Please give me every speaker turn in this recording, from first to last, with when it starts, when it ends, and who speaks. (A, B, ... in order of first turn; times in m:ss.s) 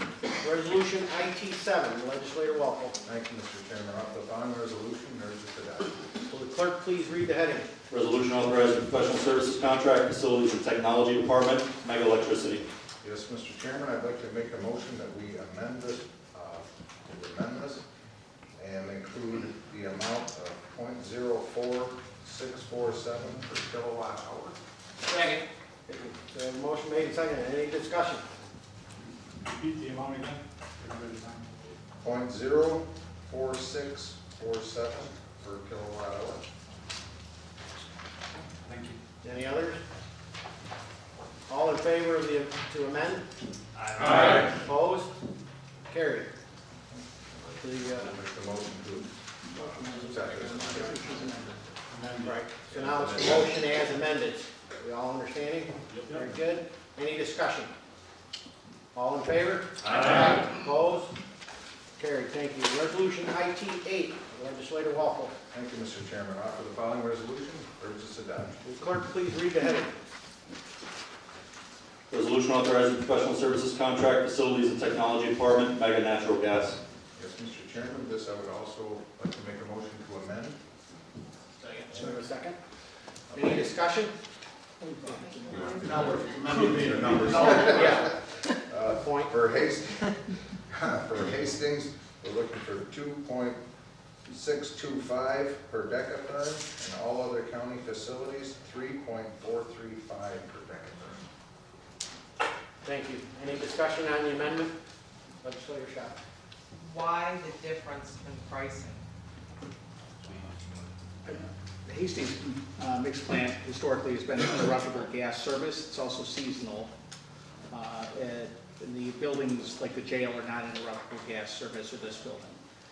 0:00.4-0:03.0 A
0:03.0-0:06.1 B
0:06.3-0:07.7 A
0:07.9-0:12.6 C
0:13.0-0:17.8 B
0:18.6-0:24.6 B
0:25.1-0:25.4 D
0:25.9-0:28.2 A
0:29.4-0:31.7 E
0:32.0-0:36.4 B
0:38.7-0:39.0 E
0:39.2-0:39.8 A
0:41.5-0:43.3 A
0:43.8-0:44.5 E
0:44.0-0:45.2 A
0:45.9-0:46.3 A
0:47.6-0:48.1 A
0:47.9-0:51.2 B
0:49.6-0:51.6 F
0:51.9-0:52.4 E
0:52.2-0:57.7 A
0:52.6-0:53.6 B
0:56.0-0:56.2 E
0:58.9-1:01.1 A
0:59.8-1:00.4 E
1:02.0-1:05.3 A
1:05.5-1:08.6 B
1:08.6-1:10.0 A
1:12.1-1:16.8 C
1:17.2-1:20.6 B
1:21.8-1:22.6 A
1:23.3-1:23.6 B
1:23.3-1:24.1 A
1:24.9-1:25.8 F
1:25.5-1:28.1 B
1:25.5-1:25.9 D
1:25.7-1:28.0 E
1:27.5-1:28.2 A
1:28.7-1:30.2 B
1:28.9-1:29.3 A
1:30.7-1:33.6 B
1:34.3-1:41.2 B
1:42.8-1:44.7 A
1:45.4-1:46.2 A
1:46.8-1:49.0 D
1:50.2-1:50.8 E
1:51.2-1:56.9 F
1:57.7-2:02.6 F